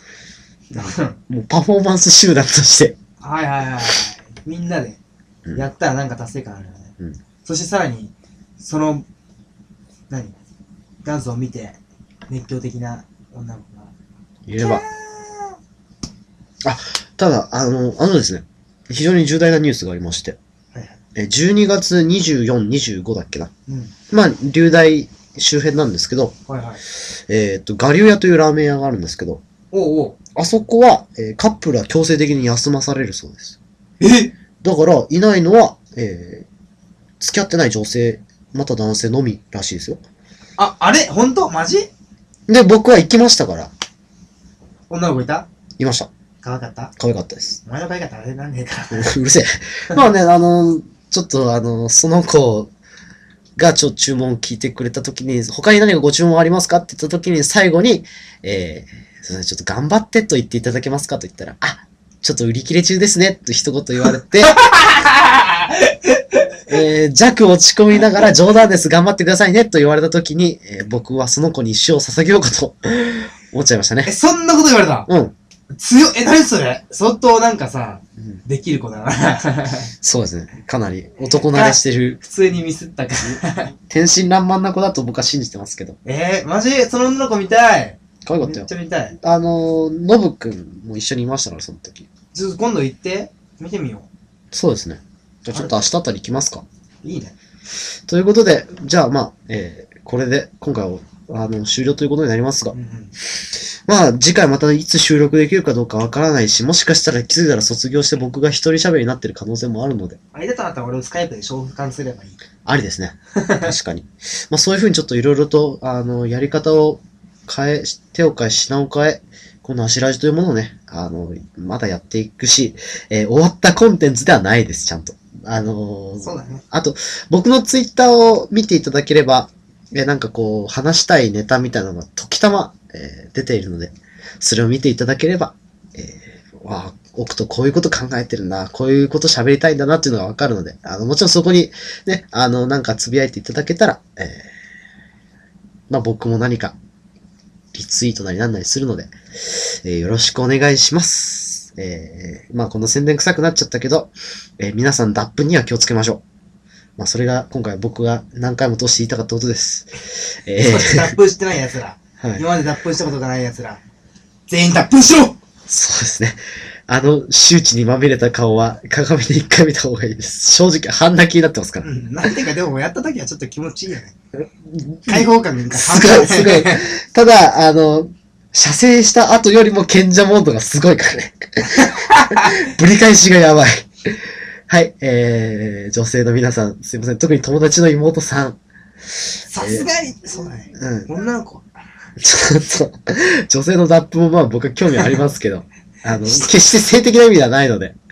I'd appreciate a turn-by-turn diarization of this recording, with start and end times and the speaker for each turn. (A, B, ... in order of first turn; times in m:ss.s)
0:00.7-0:01.2 A
0:00.7-0:03.0 B
0:03.2-0:05.0 A
0:05.6-0:06.9 A
0:07.4-0:09.0 A
0:10.1-0:10.4 A
0:11.0-0:11.8 A
0:12.3-0:13.9 A
0:14.5-0:14.8 B
0:14.6-0:15.6 A
0:16.6-0:20.4 B
0:21.2-0:23.5 B
0:23.7-0:23.9 A
0:24.1-0:26.4 B
0:26.5-0:26.8 A
0:27.3-0:29.4 B
0:29.7-0:30.2 A
0:30.4-0:33.6 B
0:34.0-0:34.3 A
0:34.6-0:36.5 B
0:37.2-0:40.0 B
0:40.6-0:41.9 A
0:42.5-0:43.7 B
0:44.9-0:45.5 A
0:45.8-0:46.1 B
0:46.4-0:46.9 A
0:47.0-0:47.6 B
0:47.6-0:49.1 A
0:48.9-0:52.7 B
0:53.6-1:04.6 B
1:04.5-1:06.8 A
1:06.7-1:14.1 B
1:14.1-1:15.1 A
1:15.1-1:15.3 B
1:15.7-1:19.9 A
1:20.0-1:22.2 B
1:21.5-1:23.7 A
1:23.9-1:26.0 B
1:26.0-1:29.2 A
1:28.3-1:28.7 B
1:29.2-1:32.1 B
1:32.3-1:34.1 A
1:34.5-1:36.6 B
1:37.0-1:37.4 A
1:38.1-1:42.8 B
1:42.7-1:43.1 A
1:43.9-1:50.2 B
1:50.3-1:52.4 A
1:52.6-2:24.5 B
1:53.4-1:53.7 A
2:06.2-2:06.6 A
2:25.9-2:26.8 B
2:27.7-2:36.2 B
2:37.0-2:41.1 B
2:40.6-2:43.8 A
2:44.5-2:45.4 A
2:45.7-2:51.9 B
2:51.8-2:54.2 A
2:54.8-3:04.2 B
2:55.1-2:56.9 A
3:01.7-3:02.5 A
3:04.7-3:08.6 B
3:09.5-3:11.7 A
3:09.6-3:09.8 B
3:10.8-3:11.1 B
3:12.2-3:18.0 B
3:16.1-3:16.5 A